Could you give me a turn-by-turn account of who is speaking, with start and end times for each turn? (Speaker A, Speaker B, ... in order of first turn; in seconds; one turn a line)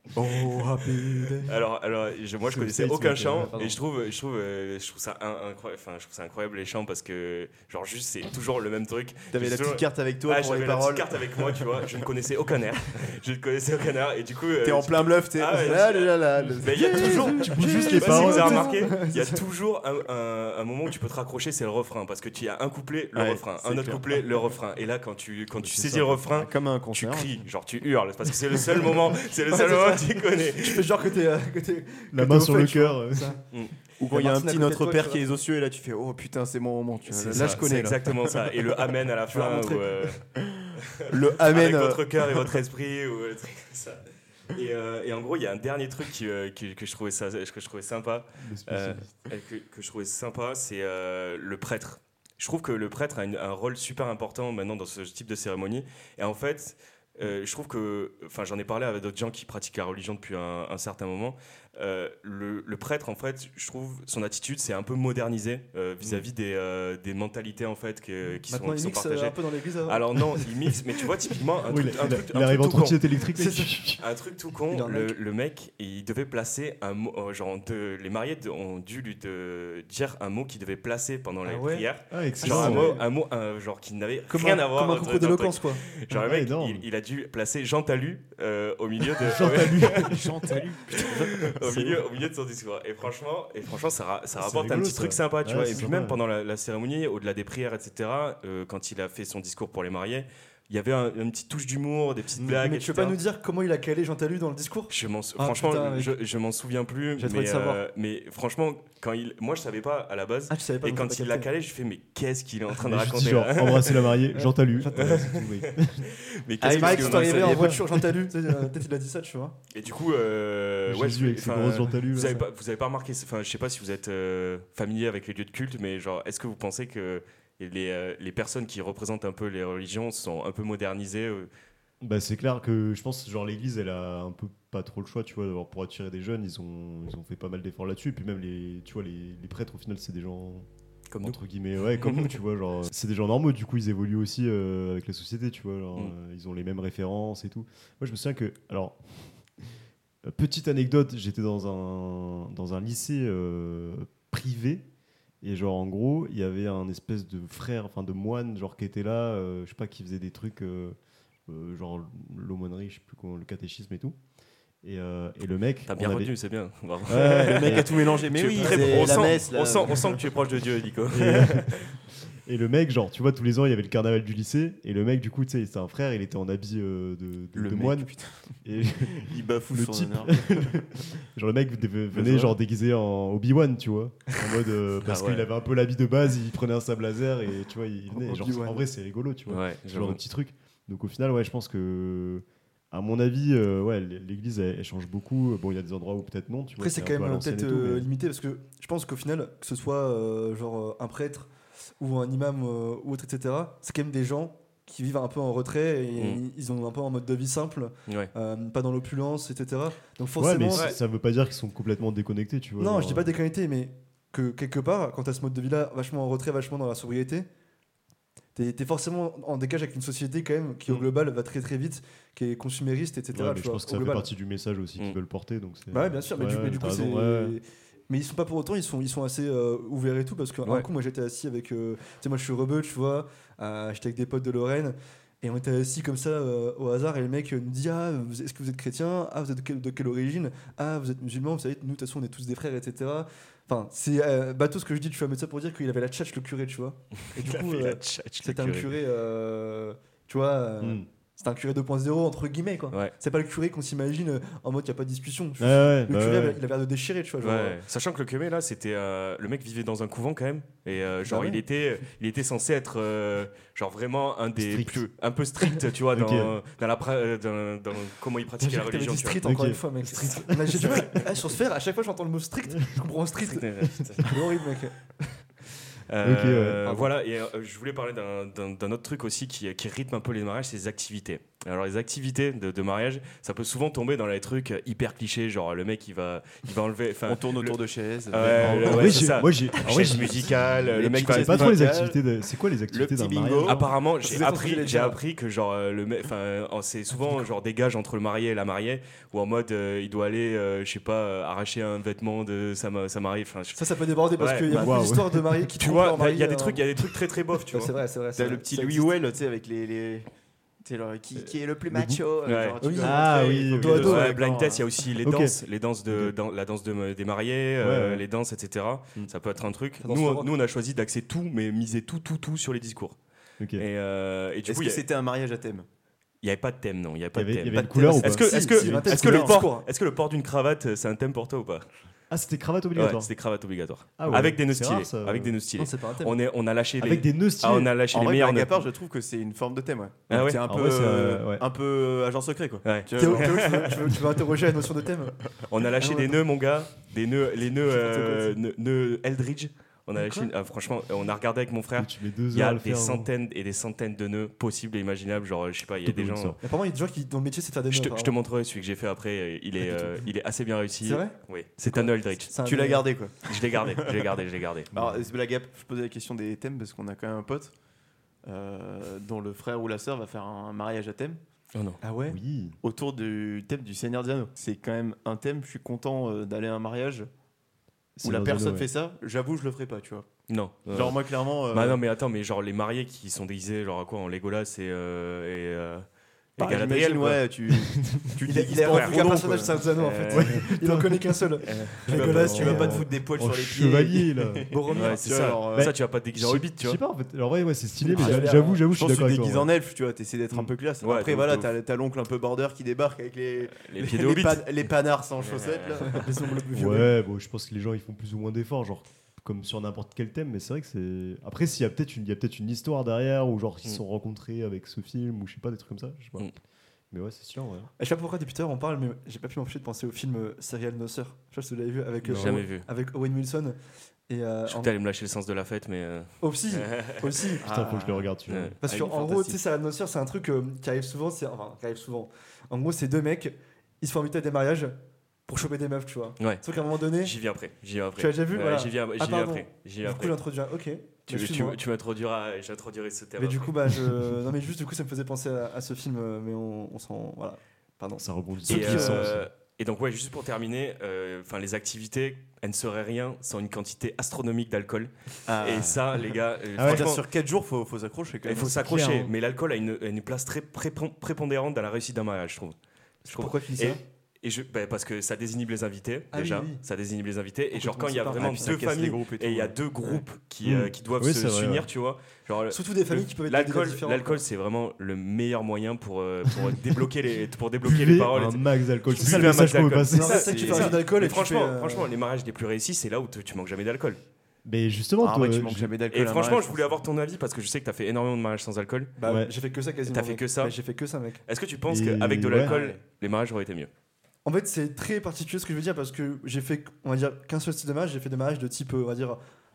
Speaker A: 0.1-1.6
Speaker B: 1.4-30.9
Speaker C: 2.4-3.7
Speaker A: 3.5-3.8
Speaker D: 9.3-11.9
Speaker D: 14.6-17.5
Speaker C: 16.9-18.8
Speaker A: 17.1-19.4
Speaker D: 23.1-24.3
Speaker C: 25.6-26.2
Speaker D: 26.3-27.5
Speaker A: 29.5-33.4
Speaker C: 32.1-33.4
Speaker D: 34.0-38.9
Speaker A: 34.1-35.2
Speaker B: 37.1-40.2
Speaker A: 39.3-40.1
Speaker D: 40.4-42.6
Speaker B: 40.8-73.1
Speaker C: 48.4-49.1
Speaker C: 66.0-66.3
Speaker A: 68.5-70.7
Speaker C: 71.7-74.0
Speaker A: 73.4-73.8
Speaker B: 74.0-103.2
Speaker A: 74.7-75.2
Speaker A: 81.4-81.9
Speaker C: 82.1-83.0
Speaker A: 82.4-83.0
Speaker A: 84.3-85.8
Speaker C: 86.1-86.8
Speaker C: 89.2-90.3
Speaker D: 89.4-92.0
Speaker C: 94.4-96.2
Speaker A: 102.5-106.2
Speaker B: 104.9-114.2
Speaker A: 107.2-107.8
Speaker A: 110.5-111.5
Speaker C: 112.7-116.1
Speaker A: 114.3-115.1
Speaker B: 114.9-117.7
Speaker D: 116.6-117.8
Speaker A: 116.6-119.6
Speaker C: 117.5-117.8
Speaker B: 119.7-131.5
Speaker C: 120.9-122.5
Speaker C: 132.0-140.7
Speaker B: 141.1-141.4
Speaker C: 141.2-149.7
Speaker B: 141.9-142.4
Speaker C: 150.2-154.9
Speaker C: 155.4-164.2
Speaker C: 164.8-166.3
Speaker B: 165.9-171.9
Speaker C: 167.1-168.0
Speaker D: 167.1-170.2
Speaker C: 168.6-169.5
Speaker C: 171.1-178.1
Speaker D: 177.6-178.6
Speaker C: 178.6-198.1
Speaker D: 179.2-180.8
Speaker D: 182.1-182.6
Speaker B: 185.0-185.5
Speaker A: 188.1-188.9
Speaker B: 189.5-190.2
Speaker A: 196.8-210.9
Speaker C: 210.4-213.3
Speaker A: 212.8-217.5
Speaker A: 218.6-224.3
Speaker C: 223.3-227.6
Speaker A: 225.9-257.8
Speaker B: 247.4-249.0
Speaker C: 255.6-256.6
Speaker B: 257.4-269.4
Speaker A: 261.3-261.6
Speaker C: 264.6-265.1
Speaker C: 266.1-266.5
Speaker A: 268.6-275.1
Speaker C: 269.4-269.8
Speaker B: 270.0-271.2
Speaker C: 270.4-271.0
Speaker B: 273.4-274.4
Speaker B: 276.1-287.8
Speaker C: 276.2-276.9
Speaker D: 287.3-292.2
Speaker B: 288.3-291.8
Speaker C: 288.4-293.9
Speaker D: 292.9-293.9
Speaker B: 293.7-303.8
Speaker A: 294.2-295.2
Speaker A: 303.8-309.1
Speaker B: 304.4-304.9
Speaker C: 304.7-305.4
Speaker B: 305.8-307.9
Speaker D: 308.4-310.3
Speaker D: 310.8-314.8
Speaker C: 311.9-312.2
Speaker B: 312.4-312.8
Speaker A: 312.8-314.3
Speaker C: 313.0-314.3
Speaker B: 313.9-323.2
Speaker C: 315.2-315.6
Speaker C: 317.8-318.2
Speaker A: 320.0-320.5
Speaker C: 323.6-323.9
Speaker B: 323.8-325.0
Speaker D: 324.7-325.9
Speaker B: 326.4-331.9
Speaker C: 327.4-329.6
Speaker A: 327.8-329.9
Speaker C: 332.3-333.3
Speaker B: 333.0-338.8
Speaker C: 334.2-335.6
Speaker A: 335.8-336.4
Speaker C: 337.0-337.9
Speaker D: 338.1-344.2
Speaker B: 340.3-340.6
Speaker C: 340.6-341.6
Speaker B: 342.8-343.8
Speaker A: 343.2-345.4
Speaker B: 345.7-356.6
Speaker A: 346.0-346.4
Speaker A: 347.9-348.6
Speaker A: 350.2-350.5
Speaker C: 352.0-353.3
Speaker C: 356.1-356.6
Speaker A: 356.6-358.3
Speaker B: 357.9-362.5
Speaker A: 361.0-363.1
Speaker D: 362.6-364.2
Speaker B: 363.5-364.9
Speaker C: 364.9-365.3
Speaker D: 364.9-367.7
Speaker D: 368.4-371.4
Speaker B: 371.7-372.0
Speaker A: 372.0-372.4
Speaker C: 372.3-372.8
Speaker D: 372.8-377.3
Speaker C: 378.2-378.9
Speaker D: 378.2-380.3
Speaker B: 380.5-386.1
Speaker D: 380.9-382.0
Speaker B: 386.6-387.5
Speaker D: 386.6-389.8
Speaker C: 388.0-388.3
Speaker A: 388.4-393.1
Speaker B: 388.9-389.2
Speaker B: 390.0-390.6
Speaker C: 390.3-394.7
Speaker B: 391.6-392.1
Speaker D: 392.1-395.9
Speaker A: 394.7-395.2
Speaker B: 394.9-397.0
Speaker C: 395.7-399.7
Speaker A: 398.1-398.8
Speaker D: 398.1-406.3
Speaker B: 401.0-401.7
Speaker B: 403.7-404.7
Speaker B: 405.4-406.3
Speaker A: 406.1-407.1
Speaker C: 406.8-416.5
Speaker C: 417.1-417.9
Speaker A: 418.0-423.8
Speaker C: 422.2-422.6
Speaker B: 422.4-422.9
Speaker A: 424.3-424.9
Speaker B: 424.7-427.5
Speaker A: 426.4-427.6
Speaker D: 427.6-429.6
Speaker C: 427.6-428.8
Speaker B: 428.5-428.8
Speaker A: 428.8-435.0
Speaker A: 435.5-437.4
Speaker B: 437.2-440.4
Speaker A: 438.2-441.8
Speaker B: 441.3-444.0
Speaker A: 443.4-449.4
Speaker C: 448.2-449.5
Speaker B: 448.7-457.2
Speaker D: 455.5-456.3
Speaker C: 456.8-457.1
Speaker D: 456.8-459.0
Speaker B: 458.4-462.8
Speaker C: 458.8-459.3
Speaker A: 463.3-464.0
Speaker B: 463.3-484.2
Speaker A: 466.3-466.8
Speaker A: 467.7-468.8
Speaker D: 468.4-470.2
Speaker C: 470.6-471.9
Speaker A: 472.7-474.4
Speaker C: 477.8-480.5
Speaker D: 479.2-479.6
Speaker A: 480.1-482.1
Speaker D: 480.3-481.0
Speaker C: 484.6-485.9
Speaker D: 485.2-486.9
Speaker B: 486.1-489.1
Speaker A: 489.2-491.4
Speaker C: 489.2-489.5
Speaker B: 490.1-490.8
Speaker B: 491.5-493.9
Speaker C: 491.9-492.7
Speaker A: 492.7-492.9
Speaker A: 494.4-499.4